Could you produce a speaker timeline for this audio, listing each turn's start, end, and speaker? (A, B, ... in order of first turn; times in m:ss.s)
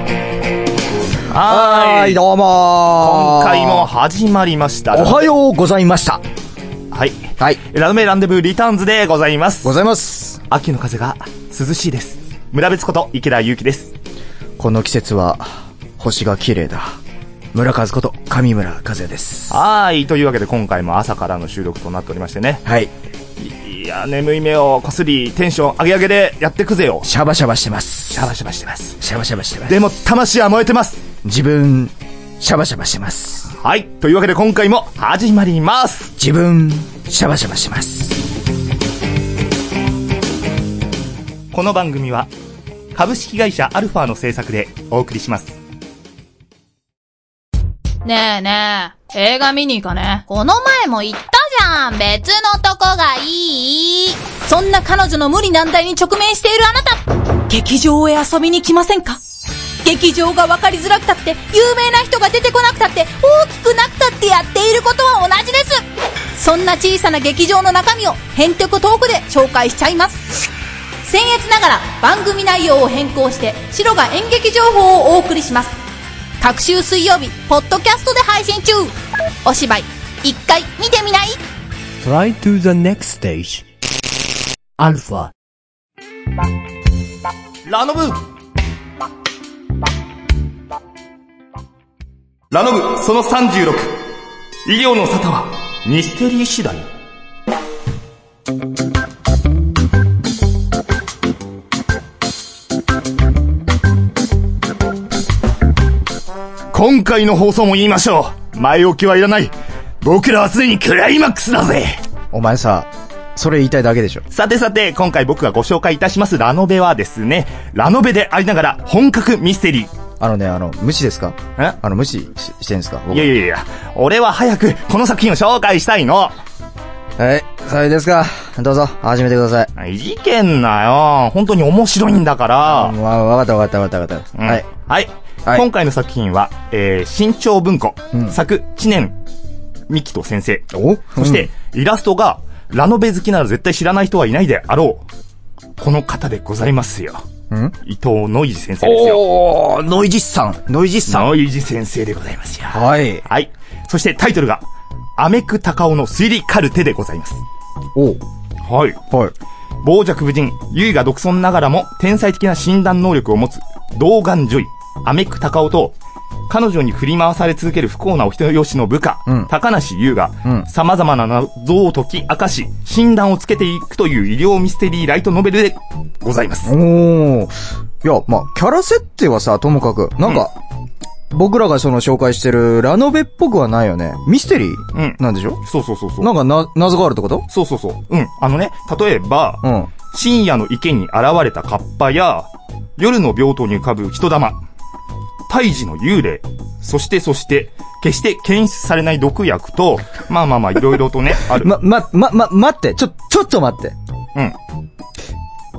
0:01.3-0:02.2 A
0:01.4-0:03.9 B
0:03.0-0:05.3 A
0:04.9-0:06.2 B
0:06.9-0:09.7 A
0:09.6-0:10.4 B
0:10.5-0:13.9 A
0:14.6-0:17.0 B
0:17.5-0:19.6 B
0:19.5-0:22.6 A
0:22.6-0:22.9 B
0:23.4-0:27.1 A
0:27.0-0:28.3 B
0:28.1-0:29.0 A
0:29.0-0:29.8 B
0:29.7-0:31.0 A
0:31.2-0:33.5 B
0:33.6-0:36.2 A
0:36.2-0:38.2 B
0:41.5-0:42.3 A
0:42.9-0:45.6 A
0:48.0-0:59.2 C
0:59.8-1:05.8 C
1:06.4-1:10.2 C
1:11.0-1:15.8 C
1:16.4-1:18.9 C
1:19.4-1:21.4 C
1:22.0-1:23.6 D
1:24.8-1:25.3 D
1:27.6-1:28.2 A
1:32.5-1:34.0 A
1:34.6-1:36.9 A
1:46.7-1:52.0 A
1:52.3-1:54.2 B
1:54.3-1:59.9 A
2:00.2-2:03.4 B
2:03.1-2:06.4 A
2:07.2-2:09.7 B
2:09.8-2:13.0 A
2:12.6-2:14.7 B
2:14.4-2:19.2 A
2:19.9-2:25.0 A
2:20.7-2:21.5 B
2:25.8-2:27.2 A
2:27.5-2:27.8 B
2:27.8-2:29.3 A
2:28.8-2:31.3 B
2:31.1-2:34.7 A
2:32.7-2:33.2 B
2:35.2-2:37.4 A
2:38.0-2:38.2 B
2:38.6-2:39.0 A
2:39.8-2:46.0 A
2:46.5-2:56.8 A
2:56.6-3:00.6 B
3:00.2-3:00.5 A
3:01.3-3:05.6 B
3:04.9-3:06.3 A
3:06.2-3:07.5 B
3:07.5-3:14.6 A
3:09.6-3:09.9 B
3:15.5-3:21.7 A
3:21.5-3:24.0 B